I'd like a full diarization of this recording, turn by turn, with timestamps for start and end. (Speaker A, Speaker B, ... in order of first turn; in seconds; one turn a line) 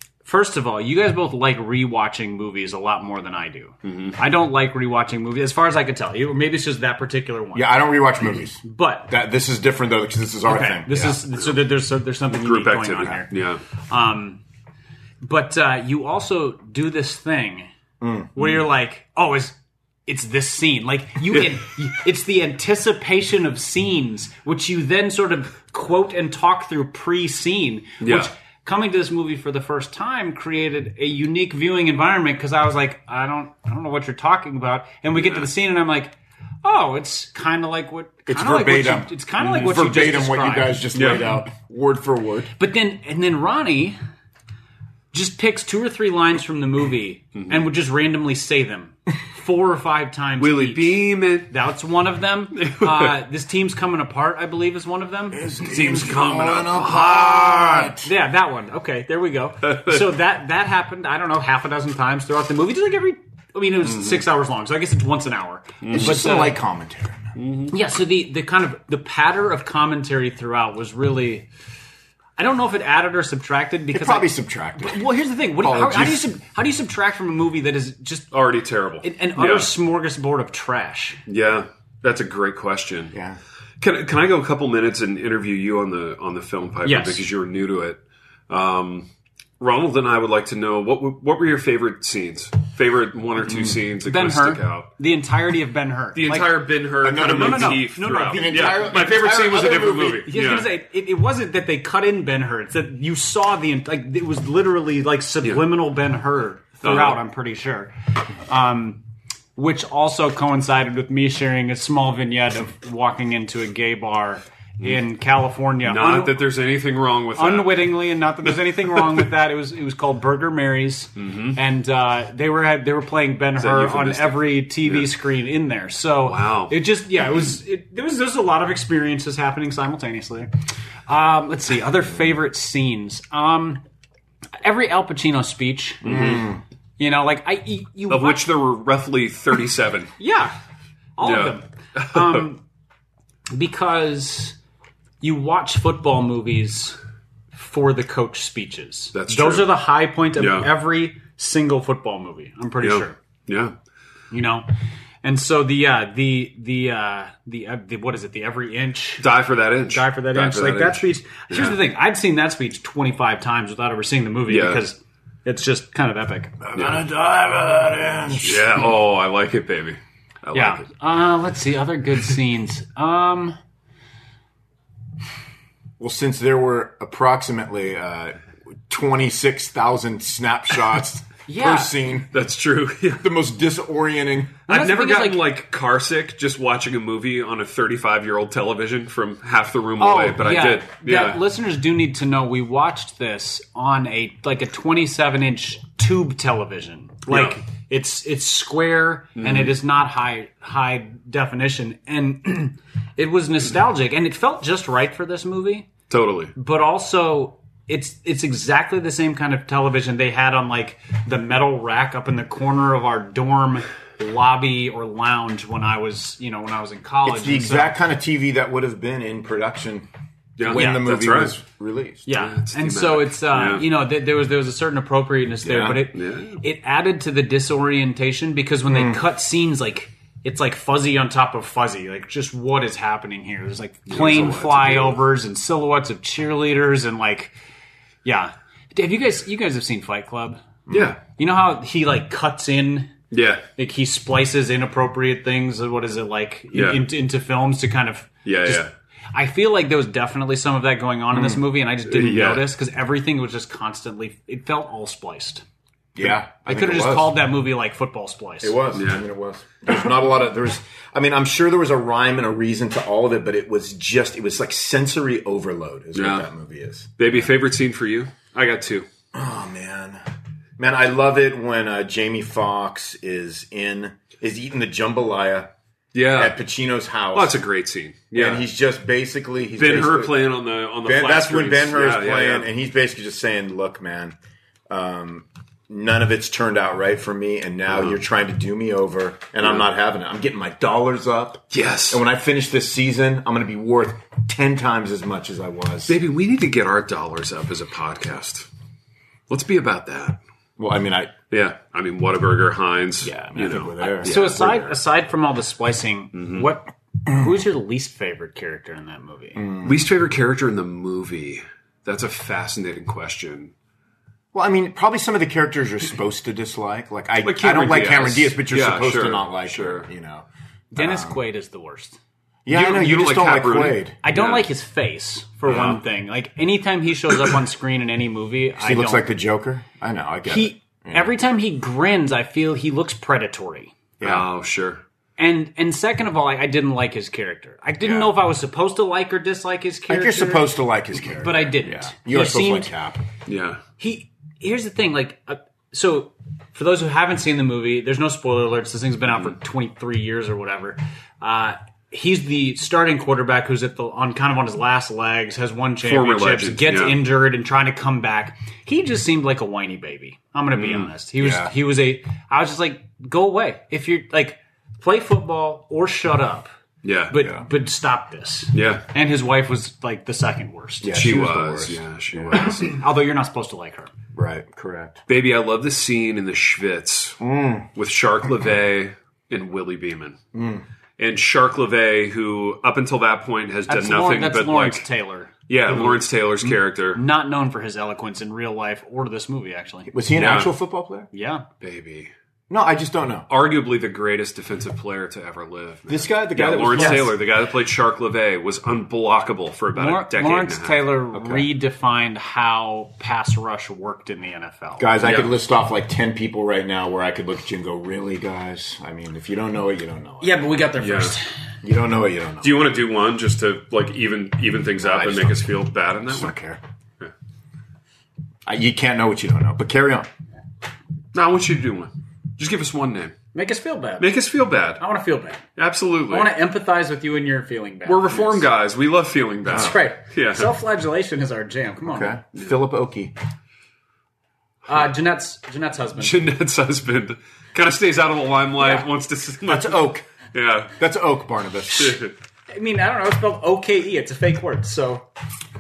Speaker A: 0.2-7.7
Speaker B: 3.8-4.2
Speaker C: 7.5-11.2
Speaker A: 8.6-9.1
Speaker A: 10.5-13.4
Speaker B: 12.3-13.6
Speaker A: 13.9-14.4
Speaker A: 15.2-17.7
Speaker C: 18.0-18.4
Speaker A: 18.4-19.6
Speaker A: 20.1-41.1
Speaker B: 28.0-28.3
Speaker B: 35.2-35.5
Speaker C: 38.3-42.5
Speaker B: 40.9-41.3
Speaker A: 42.6-44.0
Speaker A: 45.1-55.5
Speaker B: 50.4-51.5
Speaker B: 52.6-53.1
Speaker C: 55.3-58.1
Speaker B: 55.6-58.0
Speaker A: 58.0-66.6
Speaker B: 59.6-60.0
Speaker B: 65.8-66.2
Speaker C: 65.9-67.4
Speaker B: 67.4-67.7
Speaker A: 67.7-71.5
Speaker A: 72.4-78.3
Speaker C: 73.9-76.2
Speaker B: 78.3-79.7
Speaker A: 79.0-81.2
Speaker B: 81.3-83.2
Speaker C: 83.1-83.4
Speaker B: 83.8-89.1
Speaker A: 86.8-87.3
Speaker B: 89.6-94.9
Speaker A: 94.0-99.2
Speaker B: 96.2-100.7
Speaker C: 97.0-100.3
Speaker A: 100.3-107.9
Speaker B: 106.8-107.2
Speaker A: 108.5-109.0
Speaker A: 109.6-116.3
Speaker B: 115.8-118.0
Speaker A: 117.4-130.5
Speaker B: 118.8-119.3
Speaker B: 121.2-121.6
Speaker B: 123.6-125.1
Speaker B: 126.2-126.8
Speaker A: 131.1-133.8
Speaker A: 134.6-136.4
Speaker B: 136.0-136.5
Speaker C: 136.1-136.6
Speaker A: 137.0-138.5
Speaker B: 138.1-140.1
Speaker A: 140.2-140.6
Speaker A: 141.2-142.6
Speaker B: 141.2-142.4
Speaker A: 143.5-144.6
Speaker A: 145.2-147.0
Speaker A: 147.5-153.2
Speaker B: 149.1-149.8
Speaker B: 150.4-150.7
Speaker B: 152.8-153.8
Speaker A: 154.3-154.7
Speaker A: 155.2-159.3
Speaker B: 159.2-161.8
Speaker A: 159.9-166.6
Speaker B: 164.5-164.8
Speaker C: 166.6-168.9
Speaker B: 166.8-167.1
Speaker B: 168.4-170.9
Speaker A: 170.5-173.6
Speaker C: 176.0-178.4
Speaker C: 178.9-182.3
Speaker A: 181.5-182.0
Speaker B: 182.3-183.3
Speaker C: 183.2-184.6
Speaker A: 184.7-185.5
Speaker B: 184.7-191.4
Speaker A: 190.0-205.9
Speaker B: 197.3-197.6
Speaker B: 199.4-199.7
Speaker B: 206.1-206.5
Speaker A: 206.6-218.0
Speaker C: 217.2-220.1
Speaker B: 220.6-221.6
Speaker C: 220.6-222.3
Speaker A: 220.7-221.1
Speaker A: 222.3-237.5
Speaker B: 222.3-223.8
Speaker B: 225.7-226.6
Speaker C: 228.9-229.2
Speaker B: 234.1-235.2
Speaker A: 238.2-240.7
Speaker C: 240.9-241.2
Speaker B: 240.9-241.2
Speaker A: 241.4-243.2
Speaker B: 243.3-243.7
Speaker A: 243.8-255.6
Speaker B: 246.7-247.0
Speaker B: 248.4-248.9
Speaker B: 252.1-252.7
Speaker C: 256.1-257.4
Speaker A: 256.2-258.8
Speaker C: 258.6-267.5
Speaker B: 258.9-259.2
Speaker B: 266.1-266.5
Speaker B: 267.2-269.1
Speaker C: 269.3-270.2
Speaker C: 270.8-275.7
Speaker B: 276.1-276.6
Speaker C: 276.4-277.6
Speaker B: 277.3-278.7
Speaker C: 278.3-280.4
Speaker B: 279.8-282.7
Speaker C: 281.1-284.4
Speaker C: 284.9-296.1
Speaker B: 291.7-292.2
Speaker B: 296.1-298.7
Speaker B: 299.5-300.4
Speaker C: 300.8-301.3
Speaker B: 301.5-304.9
Speaker C: 303.2-304.8
Speaker A: 304.2-309.6
Speaker B: 306.3-306.7
Speaker C: 309.6-310.1
Speaker B: 309.8-313.7
Speaker C: 314.5-321.4
Speaker B: 317.4-320.1
Speaker A: 320.9-322.2
Speaker C: 322.6-324.1
Speaker B: 322.7-324.7
Speaker A: 324.2-329.3
Speaker B: 325.7-326.0
Speaker C: 328.8-331.3
Speaker A: 330.5-334.0
Speaker C: 334.2-334.5
Speaker B: 334.2-335.0
Speaker A: 335.4-340.7
Speaker B: 338.0-338.3
Speaker C: 340.1-343.2
Speaker A: 341.2-342.9
Speaker B: 343.5-343.8
Speaker A: 344.0-366.7
Speaker B: 356.0-357.2
Speaker B: 360.8-361.1
Speaker C: 361.4-361.7
Speaker B: 367.0-367.4
Speaker A: 367.3-371.2
Speaker B: 368.7-369.1
Speaker C: 371.0-372.7
Speaker B: 371.1-373.0
Speaker A: 372.5-374.1
Speaker C: 374.3-375.2
Speaker B: 375.3-377.4
Speaker C: 377.4-377.9
Speaker B: 377.9-380.4
Speaker C: 380.5-380.8
Speaker B: 381.2-385.1
Speaker A: 383.9-390.1
Speaker B: 385.7-387.2
Speaker C: 390.1-391.3
Speaker B: 390.3-390.7
Speaker A: 391.3-391.7
Speaker B: 391.8-392.3
Speaker C: 392.7-393.5
Speaker B: 393.5-401.1
Speaker C: 396.1-397.4
Speaker A: 396.7-397.3
Speaker A: 399.9-405.1
Speaker C: 401.3-401.7
Speaker C: 405.0-410.8
Speaker B: 405.2-405.5
Speaker A: 410.4-411.5
Speaker B: 411.0-411.4
Speaker C: 411.8-412.8
Speaker B: 412.6-416.5
Speaker C: 415.0-415.6
Speaker C: 416.3-416.8
Speaker C: 418.7-420.3
Speaker B: 421.3-423.4
Speaker A: 423.5-424.3
Speaker B: 424.2-425.0
Speaker A: 425.0-425.6
Speaker B: 425.8-426.5
Speaker A: 426.3-428.7
Speaker B: 428.1-430.7
Speaker A: 429.7-432.4
Speaker C: 432.0-433.3
Speaker A: 434.9-436.4
Speaker B: 436.2-440.9
Speaker A: 438.8-439.1
Speaker C: 439.6-440.2
Speaker C: 441.0-442.2
Speaker B: 441.9-442.3
Speaker A: 442.7-445.3